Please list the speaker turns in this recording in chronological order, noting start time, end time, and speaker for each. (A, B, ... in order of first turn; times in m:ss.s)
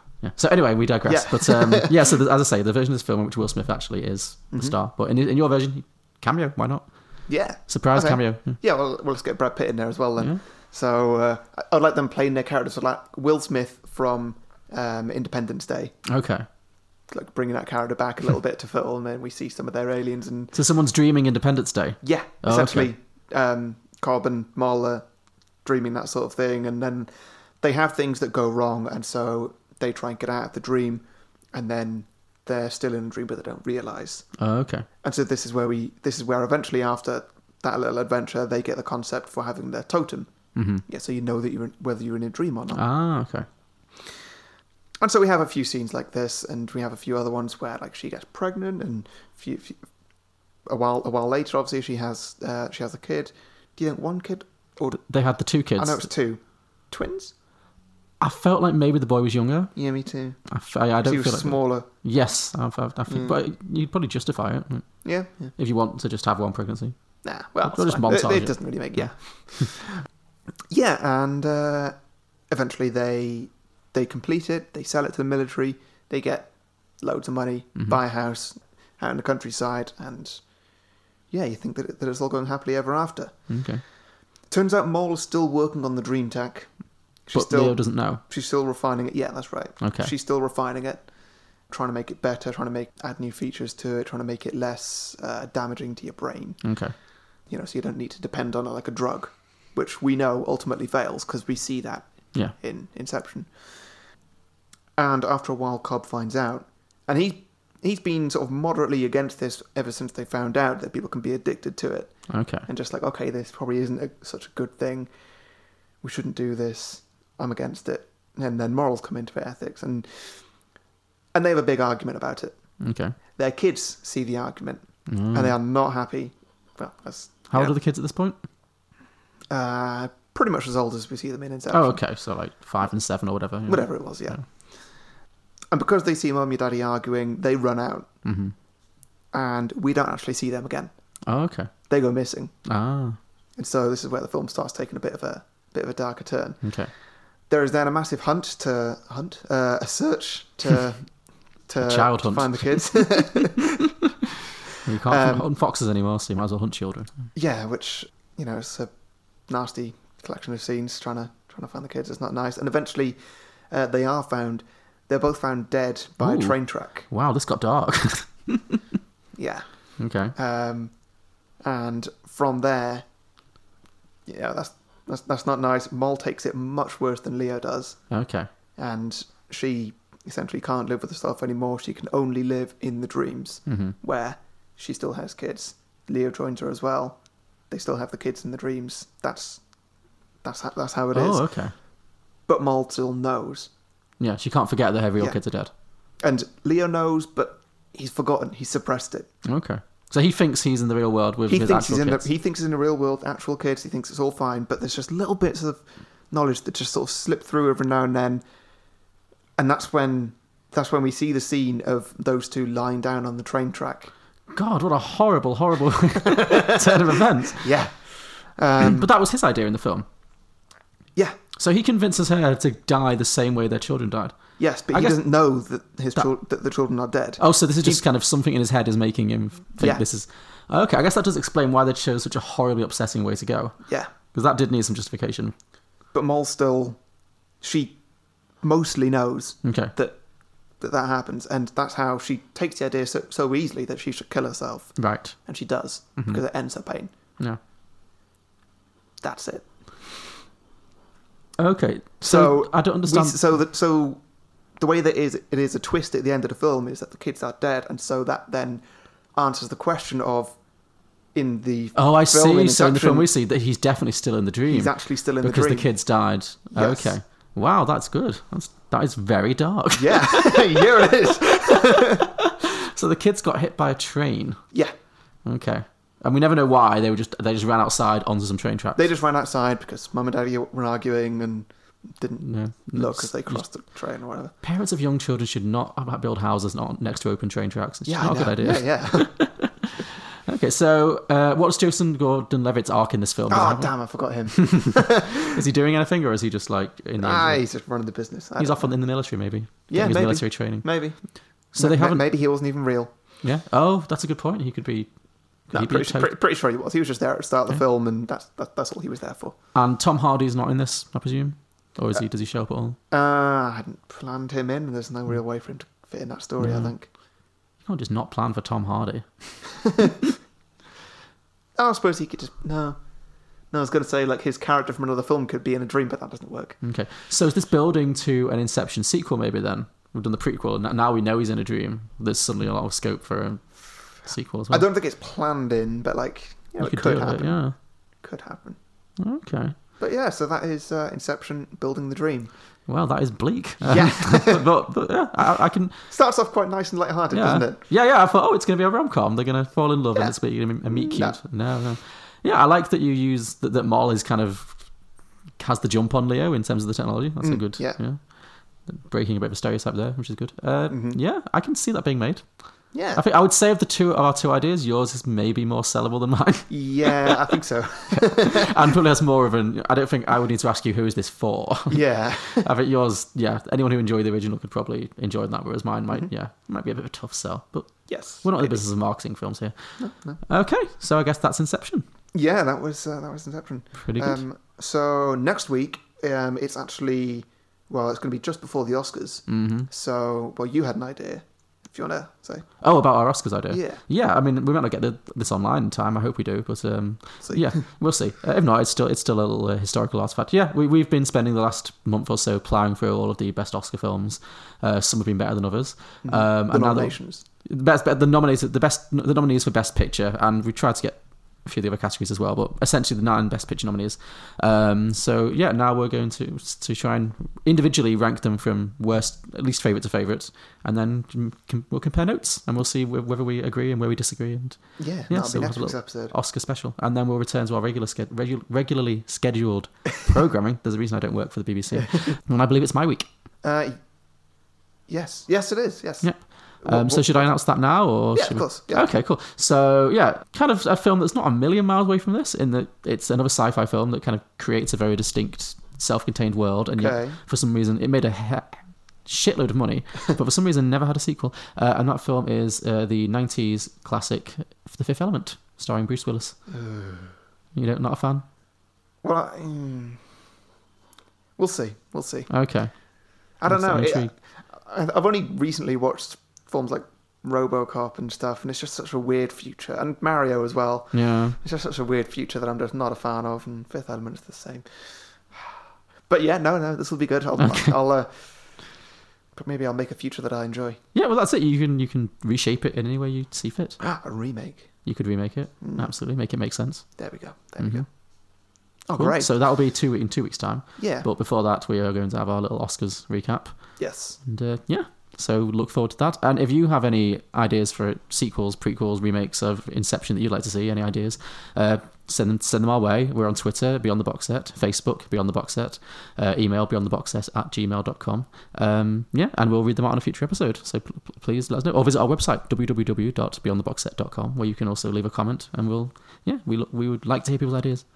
0:00.2-0:08.6 A
0:01.0-0:01.9 B
0:07.3-0:15.9 B
0:16.1-0:16.4 A
0:17.1-0:20.5 B
0:20.5-0:22.9 A
0:22.0-0:25.0 B
0:25.6-0:34.4 B
0:34.4-0:34.9 A
0:35.0-0:42.8 B
0:40.5-0:40.8 A
0:42.7-0:43.4 A
0:45.0-0:49.8 B
0:50.6-0:55.0 B
0:54.9-0:56.1 A
0:55.8-0:57.3 B
0:58.2-0:59.7 A
0:59.7-1:01.9 B
1:00.5-1:06.9 A
1:03.1-1:03.4 B
1:05.0-1:05.5 B
1:07.2-1:10.0 B
1:07.6-1:09.7 A
1:10.7-1:23.6 B
1:23.5-1:23.8 A
1:24.4-1:36.8 B
1:27.3-1:28.2 A
1:29.8-1:30.1 A
1:36.6-1:36.9 A
1:37.4-1:43.9 B
1:45.0-1:55.1 B
1:52.3-1:52.7 A
1:56.0-2:00.4 B
2:01.3-2:02.6 B
2:02.8-2:03.1 A
2:03.3-2:07.7 B
2:05.1-2:05.5 A
2:07.5-2:08.4 A
2:09.5-2:12.0 B
2:11.7-2:14.4 A
2:13.6-2:15.0 B
2:15.7-2:18.1 B
2:18.2-2:18.5 A
2:19.3-2:20.9 B
2:21.3-2:21.7 A
2:21.9-2:22.5 B
2:22.6-2:23.2 A
2:23.6-2:26.8 B
2:26.6-2:26.9 A
2:27.5-2:33.7 B
2:31.8-2:33.3 A
2:34.8-2:37.1 A
2:35.0-2:35.5 B
2:37.3-2:38.9 B
2:39.5-2:47.1 B
2:46.2-2:48.8 A
2:49.4-2:51.0 B
2:50.0-2:50.3 A
2:51.6-2:53.0 B
2:54.2-2:58.1 B
2:58.1-2:58.5 A
2:58.8-3:09.6 B
3:03.7-3:03.9 A
3:10.4-3:11.5 B
3:11.1-3:11.7 A
3:12.4-3:13.7 B
3:14.2-3:15.7 A
3:16.2-3:19.3 B
3:19.4-3:22.2 A
3:21.5-3:28.4 B
3:29.6-3:34.1 B
3:34.5-3:37.7 A
3:36.4-3:36.8 B
3:37.6-3:39.1 B
3:38.8-3:40.0 A
3:41.6-3:45.2 A
3:44.6-3:48.0 B
3:47.4-3:55.5 A
3:56.1-3:57.0 B
3:57.6-4:00.2 B
3:59.6-3:59.9 A
4:00.8-4:07.1 B
4:05.0-4:05.4 A
4:06.2-4:06.4 A
4:09.2-4:10.0 B
4:11.6-4:13.4 A
4:12.2-4:14.2 B
4:14.8-4:20.6 B
4:21.3-4:23.3 B
4:21.9-4:30.6 A
4:24.7-4:25.9 B
4:26.7-4:27.1 B
4:29.9-4:32.2 B
4:32.6-4:34.6 A
4:35.4-4:39.0 A
4:39.0-4:44.5 B
4:42.4-4:43.6 A
4:44.6-4:57.9 A
4:48.0-4:49.4 B
4:53.5-4:55.3 B
4:57.2-5:03.1 B
4:58.6-5:02.2 A
5:03.4-5:05.1 A
5:05.6-5:06.3 A
5:05.7-5:09.6 B
5:09.7-5:13.0 A
5:13.1-5:17.1 B
5:16.6-5:16.9 A
5:17.8-5:19.6 A
5:21.8-5:23.0 B
5:23.7-5:26.8 B
5:26.8-5:34.8 A
5:34.7-5:38.8 B
5:36.8-5:37.7 A
5:39.2-5:39.8 A
5:40.0-5:42.5 B
5:42.9-5:46.1 A
5:43.8-5:44.6 B
5:46.1-5:47.8 B
5:47.3-5:54.9 A
5:50.1-5:51.4 B
5:55.6-5:58.3 A
5:57.4-5:58.0 B
5:58.8-6:07.3 A
6:00.9-6:01.2 B
6:02.9-6:03.2 B
6:06.7-6:08.7 B
6:08.3-6:22.0 A
6:11.9-6:12.7 B
6:18.1-6:18.8 B
6:20.0-6:20.4 B
6:22.3-6:32.8 B
6:24.0-6:24.4 A
6:29.5-6:29.9 A
6:32.8-7:13.3 A
6:33.7-6:34.0 B
6:37.4-6:37.7 B
6:46.2-6:47.4 B
7:05.0-7:06.3 B
7:13.6-7:14.0 B
7:15.1-7:17.5 B
7:16.2-7:36.6 A
7:18.3-7:19.1 B
7:27.0-7:27.4 B
7:36.7-7:37.3 B
7:37.7-7:38.4 A
7:39.2-7:40.2 B
7:41.6-7:42.6 B
7:42.5-7:44.3 A
7:43.6-7:55.7 B
7:51.1-7:51.6 A
7:56.3-7:59.0 B
7:57.6-7:57.9 A
7:59.5-8:01.0 B
8:01.1-8:04.0 A
8:04.0-8:04.9 B
8:05.0-8:07.2 A
8:05.8-8:06.1 B
8:07.2-8:08.1 B
8:07.8-8:08.0 A
8:09.0-8:09.5 B
8:09.1-8:38.0 A
8:11.0-8:11.3 B
8:14.0-8:14.4 B